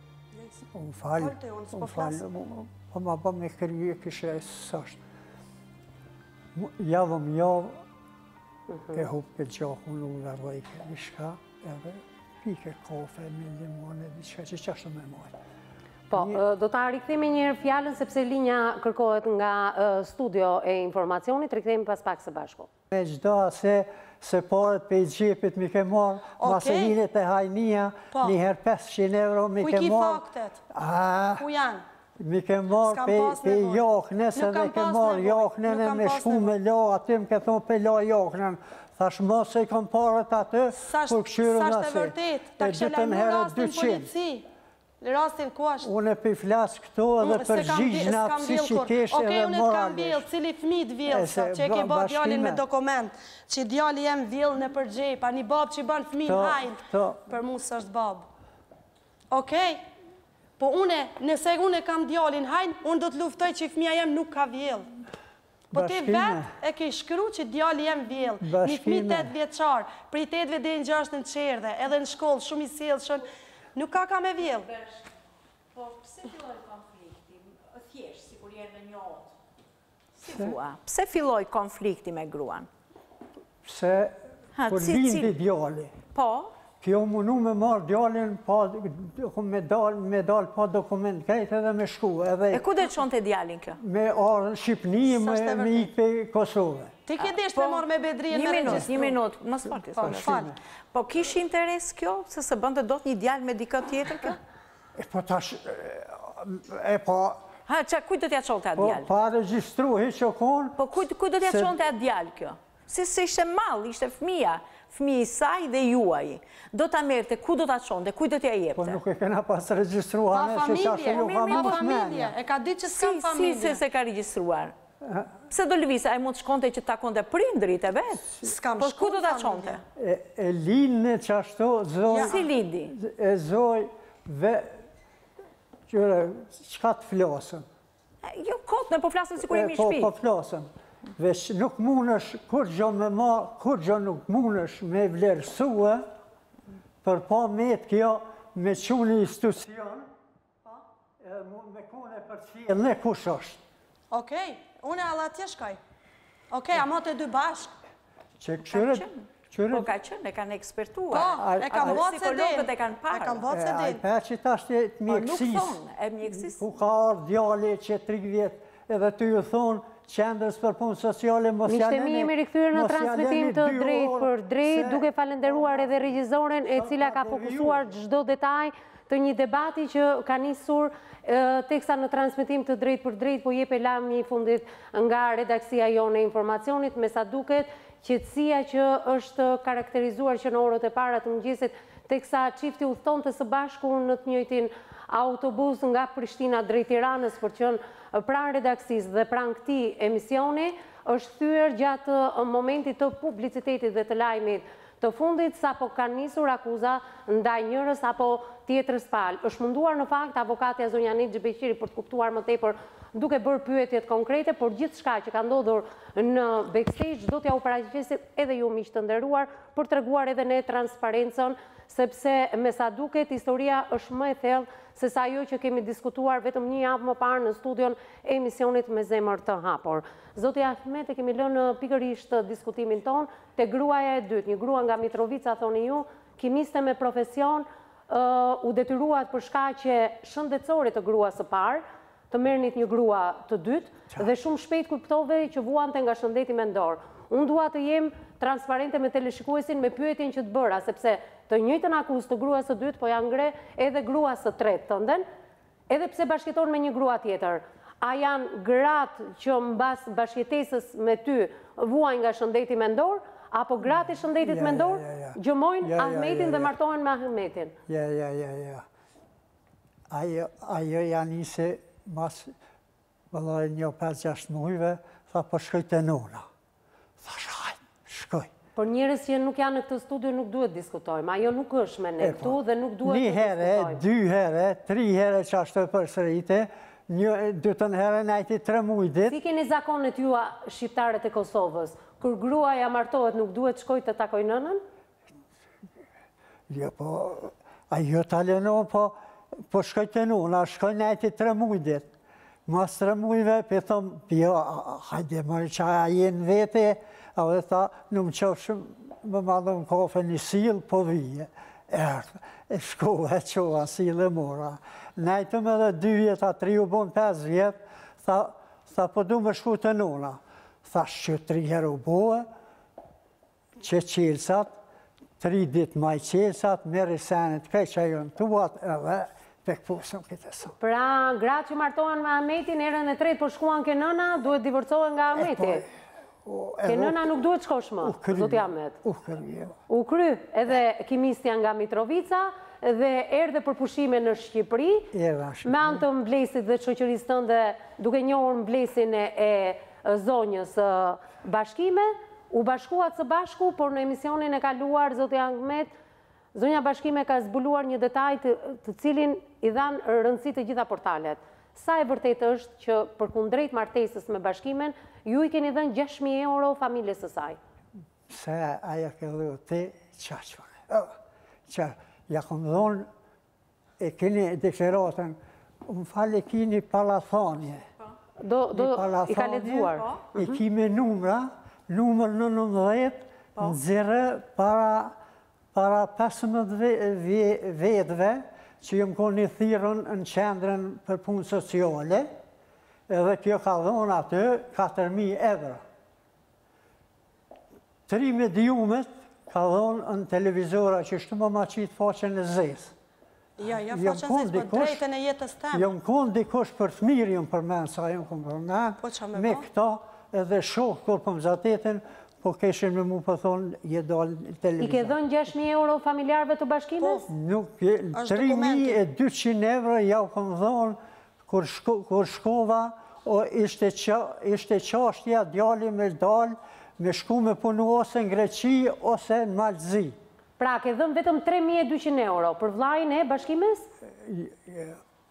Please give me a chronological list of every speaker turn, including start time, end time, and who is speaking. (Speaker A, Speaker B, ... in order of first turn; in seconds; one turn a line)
Speaker A: 0.7-5.0
Speaker B: 1.2-2.2
Speaker A: 6.5-7.8
Speaker C: 8.7-9.0
Speaker A: 8.9-15.3
Speaker C: 16.1-22.7
Speaker A: 16.1-16.4
Speaker A: 22.9-31.5
Speaker B: 26.4-27.0
Speaker B: 29.6-30.6
Speaker B: 31.4-31.8
Speaker A: 32.2-44.1
Speaker B: 32.8-33.8
Speaker B: 34.4-36.5
Speaker B: 40.8-44.5
Speaker B: 45.0-45.9
Speaker A: 45.8-50.3
Speaker B: 47.2-58.3
Speaker A: 51.1-52.6
Speaker A: 56.2-57.2
Speaker B: 59.3-59.9
Speaker B: 60.6-64.9
Speaker B: 65.7-74.7
Speaker A: 65.7-66.5
Speaker A: 68.4-69.3
Speaker D: 75.8-76.8
Speaker D: 78.0-79.2
Speaker D: 80.2-82.7
Speaker A: 80.2-80.5
Speaker A: 83.6-86.0
Speaker D: 84.6-85.3
Speaker D: 86.1-86.6
Speaker A: 86.8-92.7
Speaker D: 92.5-93.8
Speaker A: 93.8-96.9
Speaker B: 95.0-95.9
Speaker B: 97.1-99.2
Speaker D: 97.2-104.4
Speaker B: 100.0-100.5
Speaker A: 100.2-100.5
Speaker A: 105.0-107.5
Speaker D: 107.7-109.1
Speaker A: 108.8-110.8
Speaker D: 110.8-119.0
Speaker A: 111.4-111.8
Speaker A: 118.8-122.4
Speaker B: 120.3-123.8
Speaker D: 121.5-121.8
Speaker D: 122.9-124.7
Speaker A: 125.0-125.3
Speaker D: 125.5-129.8
Speaker B: 128.4-129.8
Speaker A: 130.0-134.8
Speaker B: 132.1-132.3
Speaker D: 132.2-132.9
Speaker A: 135.9-137.7
Speaker D: 138.2-140.1
Speaker A: 139.4-146.1
Speaker A: 147.0-150.1
Speaker A: 150.7-153.6
Speaker B: 154.1-155.8
Speaker B: 156.5-157.7
Speaker A: 158.4-159.9
Speaker D: 158.7-163.5
Speaker B: 161.1-164.0
Speaker A: 161.2-162.0
Speaker A: 163.5-175.9
Speaker D: 165.1-166.6
Speaker C: 171.7-255.3
Speaker A: 176.7-177.9
Speaker C: 255.9-267.8
Speaker A: 264.4-266.7
Speaker A: 267.9-268.9
Speaker A: 270.1-272.5
Speaker A: 273.3-276.5
Speaker A: 277.2-278.5
Speaker C: 278.8-284.0
Speaker A: 282.2-289.4
Speaker C: 289.3-294.8
Speaker A: 296.7-299.2
Speaker A: 299.7-302.1
Speaker A: 302.7-322.5
Speaker A: 323.8-324.8
Speaker A: 325.4-330.8
Speaker C: 330.8-335.8
Speaker A: 335.4-335.9
Speaker A: 336.4-337.2
Speaker C: 336.9-338.9
Speaker A: 338.0-339.8
Speaker C: 339.9-345.1
Speaker A: 345.1-346.0
Speaker C: 345.6-355.9
Speaker C: 356.5-367.6
Speaker A: 368.3-373.1
Speaker A: 374.0-377.9
Speaker C: 378.4-380.6
Speaker A: 378.7-385.1
Speaker A: 385.7-392.3
Speaker A: 393.1-395.8
Speaker A: 398.1-402.9
Speaker B: 403.6-405.9
Speaker A: 403.9-405.0
Speaker A: 405.7-415.1
Speaker B: 409.0-409.7
Speaker C: 414.8-417.2
Speaker B: 417.0-417.3
Speaker A: 417.3-430.2
Speaker B: 418.1-419.0
Speaker C: 430.6-433.9
Speaker A: 434.0-435.0